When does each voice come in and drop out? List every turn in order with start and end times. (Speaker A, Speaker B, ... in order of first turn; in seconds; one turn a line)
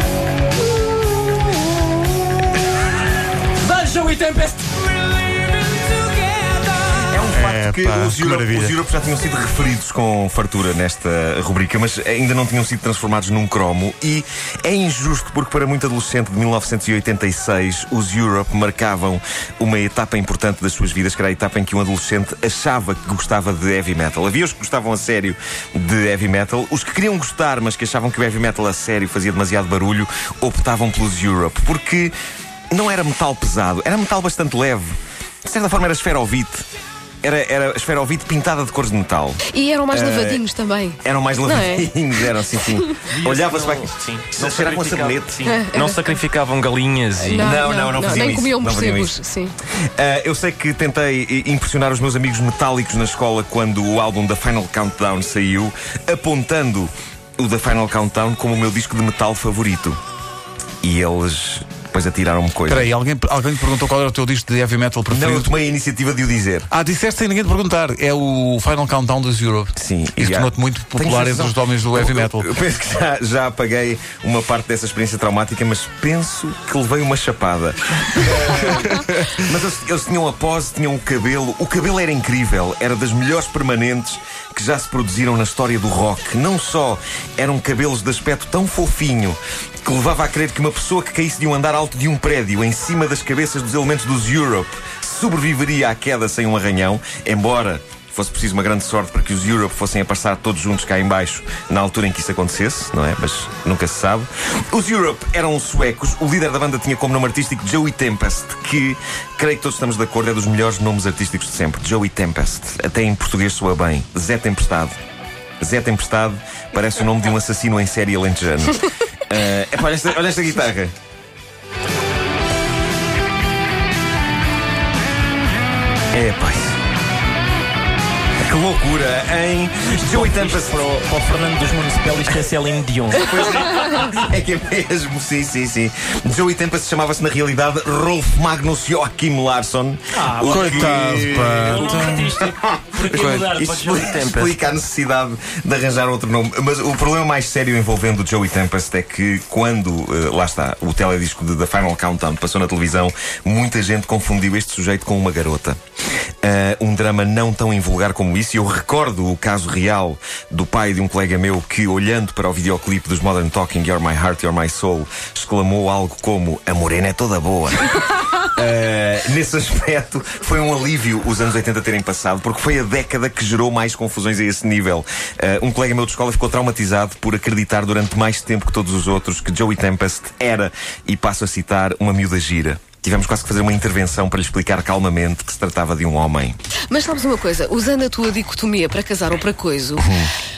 Speaker A: 0.8-1.9
Speaker A: 3.6-7.1
Speaker B: 7.1-32.1
Speaker C: 7.3-8.8
Speaker B: 32.7-36.7
Speaker B: 37.2-40.4
Speaker D: 39.5-41.9
Speaker B: 41.0-45.5
Speaker E: 43.1-47.5
Speaker D: 45.5-46.1
Speaker A: 46.9-47.5
Speaker D: 47.2-49.5
Speaker B: 47.4-49.2
Speaker B: 50.0-60.0
Speaker B: 60.8-62.9
Speaker C: 62.7-65.5
Speaker B: 65.1-66.7
Speaker C: 66.7-72.5
Speaker B: 69.8-115.0
Speaker C: 78.5-79.0
Speaker B: 115.6-120.9
Speaker B: 126.1-126.8
Speaker B: 128.4-131.0
Speaker E: 129.9-133.7
Speaker B: 133.2-155.8
Speaker E: 140.2-140.9
Speaker C: 140.4-142.4
Speaker E: 141.6-144.6
Speaker C: 143.1-143.5
Speaker B: 156.4-186.6
Speaker D: 186.9-190.1
Speaker B: 190.0-190.3